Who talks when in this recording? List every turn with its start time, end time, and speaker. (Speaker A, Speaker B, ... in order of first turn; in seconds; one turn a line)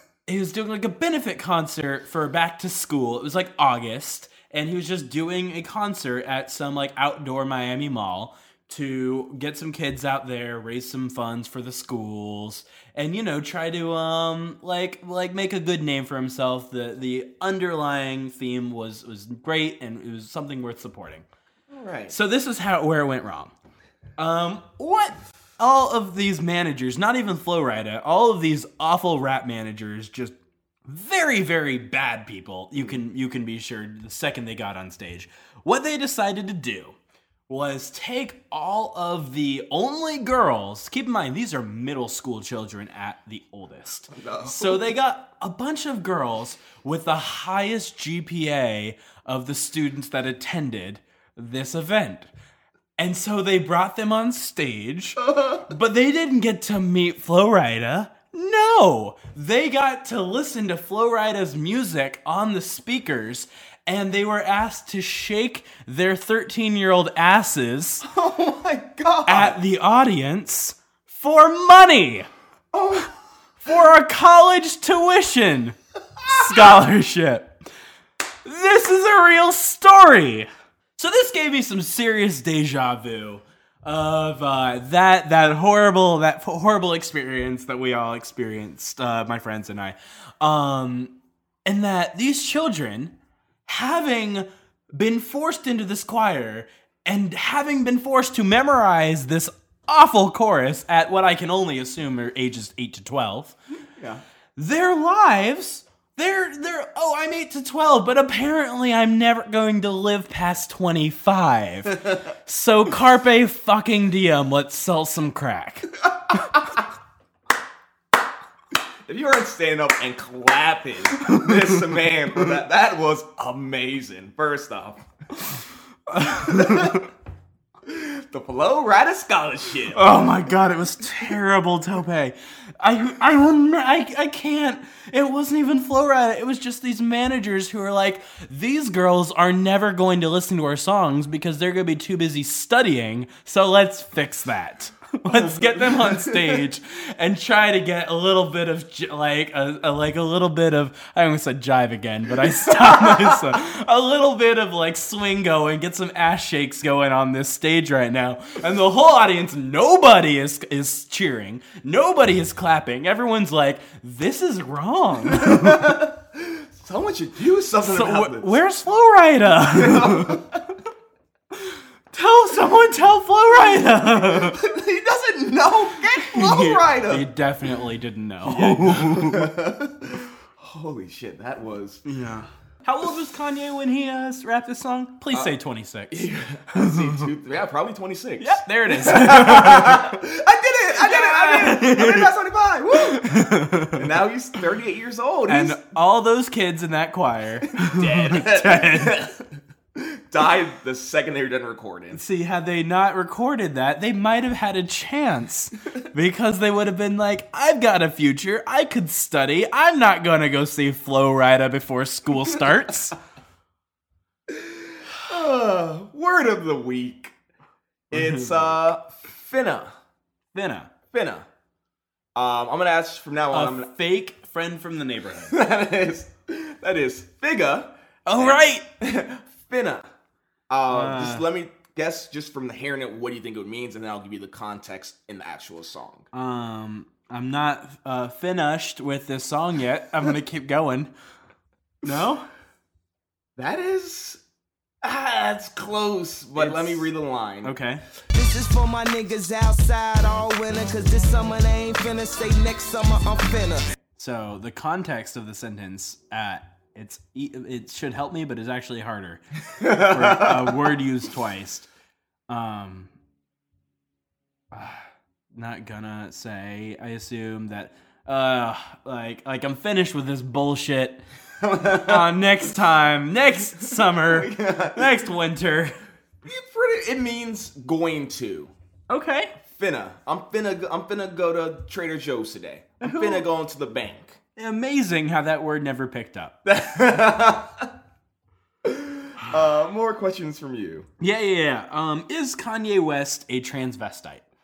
Speaker A: 0.3-21.2
Speaker B: 21.7-22.1
Speaker A: 22.1-23.5
Speaker A: 24.2-30.4
Speaker A: 30.9-37.0
Speaker A: 37.5-52.3
Speaker B: 44.1-44.8
Speaker A: 53.0-68.1
Speaker B: 68.0-69.6
Speaker A: 69.3-72.3
Speaker B: 72.7-73.1
Speaker A: 73.6-77.6
Speaker A: 78.5-91.1
Speaker A: 91.7-93.2
Speaker A: 93.7-103.5
Speaker B: 104.0-104.2
Speaker A: 104.6-116.0
Speaker B: 119.1-125.0
Speaker A: 121.3-121.6
Speaker A: 126.1-127.1
Speaker B: 126.3-127.1
Speaker B: 127.9-130.0
Speaker A: 129.9-166.0
Speaker B: 145.3-146.6
Speaker B: 165.3-168.6
Speaker A: 167.8-170.4
Speaker B: 169.8-170.6
Speaker A: 172.1-174.6
Speaker B: 174.3-177.3
Speaker A: 176.2-179.5
Speaker B: 178.4-182.0
Speaker A: 182.1-187.3
Speaker B: 186.1-195.8
Speaker A: 188.4-190.2
Speaker A: 191.0-192.3
Speaker A: 193.1-194.1
Speaker A: 195.5-199.2
Speaker B: 197.7-202.2
Speaker A: 202.1-213.2
Speaker B: 214.5-217.3
Speaker B: 218.1-219.9
Speaker A: 218.1-218.8
Speaker A: 220.5-220.9
Speaker B: 221.1-221.5
Speaker B: 222.3-223.9
Speaker A: 223.5-225.6
Speaker B: 225.5-230.1
Speaker A: 228.3-228.9
Speaker B: 230.7-236.3
Speaker A: 230.9-231.5
Speaker A: 236.3-241.1
Speaker A: 242.0-242.5
Speaker B: 243.6-244.4
Speaker B: 245.0-247.7
Speaker A: 246.6-247.1
Speaker A: 247.6-248.0
Speaker C: 248.3-253.9
Speaker A: 254.2-261.9
Speaker B: 259.8-260.8
Speaker A: 262.5-263.1
Speaker A: 264.7-265.0
Speaker A: 265.5-271.2
Speaker B: 271.6-272.3
Speaker A: 271.8-276.0
Speaker B: 273.8-275.2
Speaker B: 276.4-278.7
Speaker A: 279.1-279.6
Speaker B: 279.6-284.4
Speaker A: 283.0-283.4
Speaker A: 284.6-286.6
Speaker B: 286.6-287.9
Speaker B: 288.8-291.1
Speaker A: 291.2-294.4